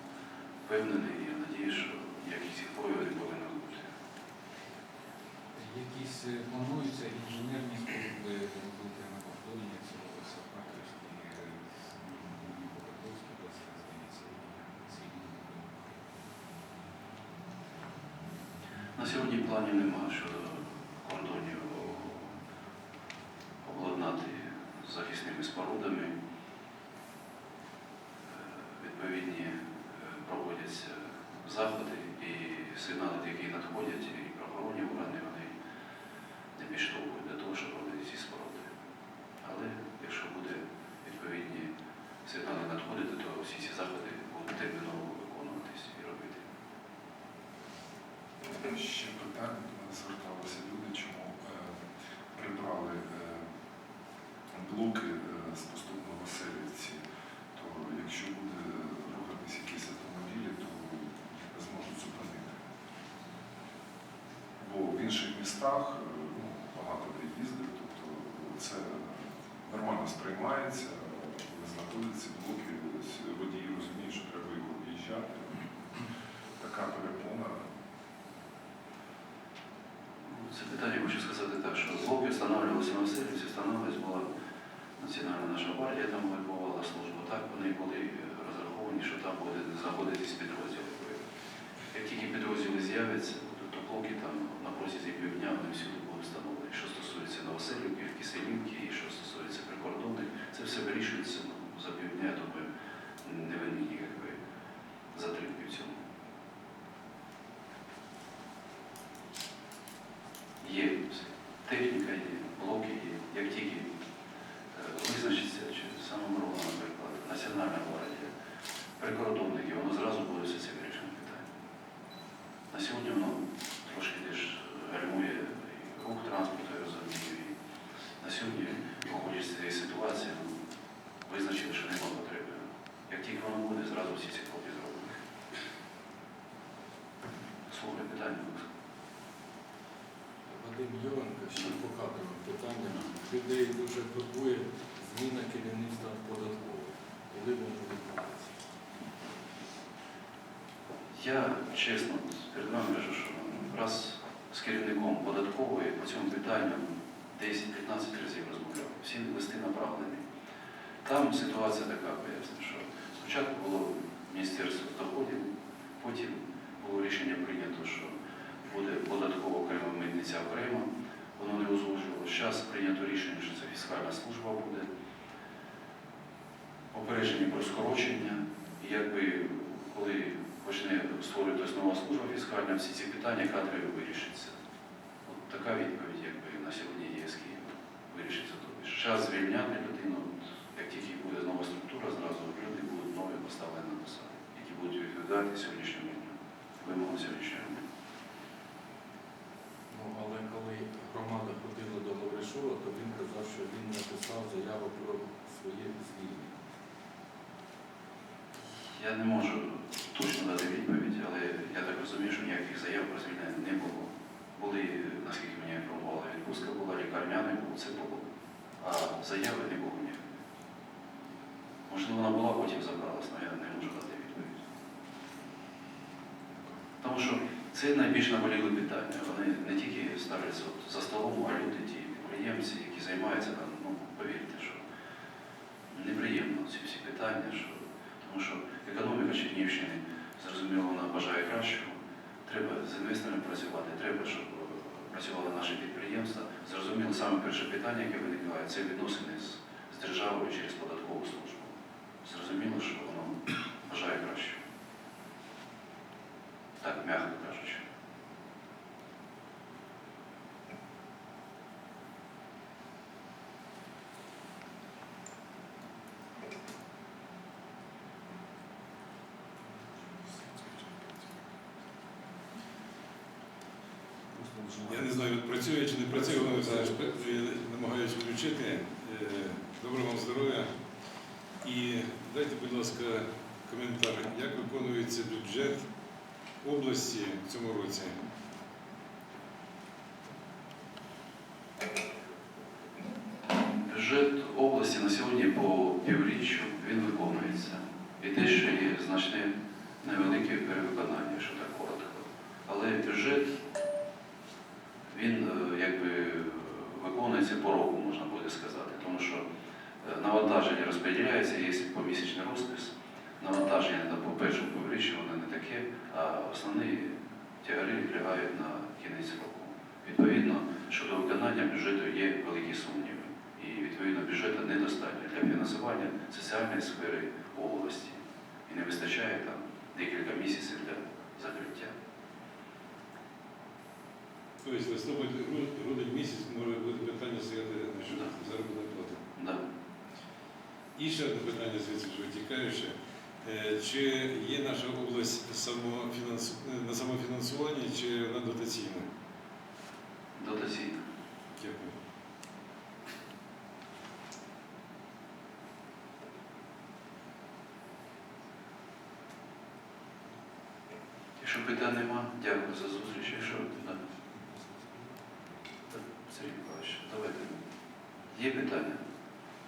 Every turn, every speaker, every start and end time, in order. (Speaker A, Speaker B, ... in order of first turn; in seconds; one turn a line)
Speaker A: 0.7-3.9
Speaker B: 5.5-16.1
Speaker A: 18.9-22.3
Speaker A: 23.6-26.1
Speaker A: 28.6-35.5
Speaker A: 36.5-38.7
Speaker A: 39.4-41.7
Speaker A: 42.2-46.4
Speaker C: 48.5-51.8
Speaker C: 52.3-53.5
Speaker C: 54.5-57.0
Speaker C: 57.5-62.6
Speaker C: 64.6-75.8
Speaker C: 76.6-77.6
Speaker A: 80.3-84.3
Speaker A: 85.0-91.2
Speaker A: 91.9-102.7
Speaker A: 103.2-104.4
Speaker A: 105.1-106.0
Speaker A: 110.6-113.9
Speaker A: 114.7-118.3
Speaker A: 119.0-121.4
Speaker A: 122.7-127.5
Speaker A: 128.2-130.5
Speaker A: 131.2-135.2
Speaker A: 137.7-138.7
Speaker D: 140.5-148.5
Speaker A: 151.2-160.2
Speaker A: 161.0-168.1
Speaker A: 168.7-174.9
Speaker A: 176.9-184.5
Speaker A: 185.3-197.8
Speaker D: 199.9-206.5
Speaker A: 208.9-218.2
Speaker A: 218.8-220.2
Speaker A: 221.9-224.6
Speaker A: 227.0-234.8
Speaker A: 235.9-254.6
Speaker A: 256.8-257.8
Speaker D: 274.3-275.1
Speaker E: 274.8-280.7
Speaker D: 276.2-277.4
Speaker E: 281.6-285.9
Speaker E: 286.6-288.2
Speaker A: 293.8-303.6
Speaker A: 305.1-309.4
Speaker A: 310.0-331.9
Speaker E: 334.6-339.2
Speaker A: 339.4-339.6
Speaker E: 340.9-349.1
Speaker A: 350.3-351.0
Speaker E: 351.5-351.9
Speaker A: 361.4-364.0
Speaker A: 365.9-367.6
Speaker A: 368.3-369.0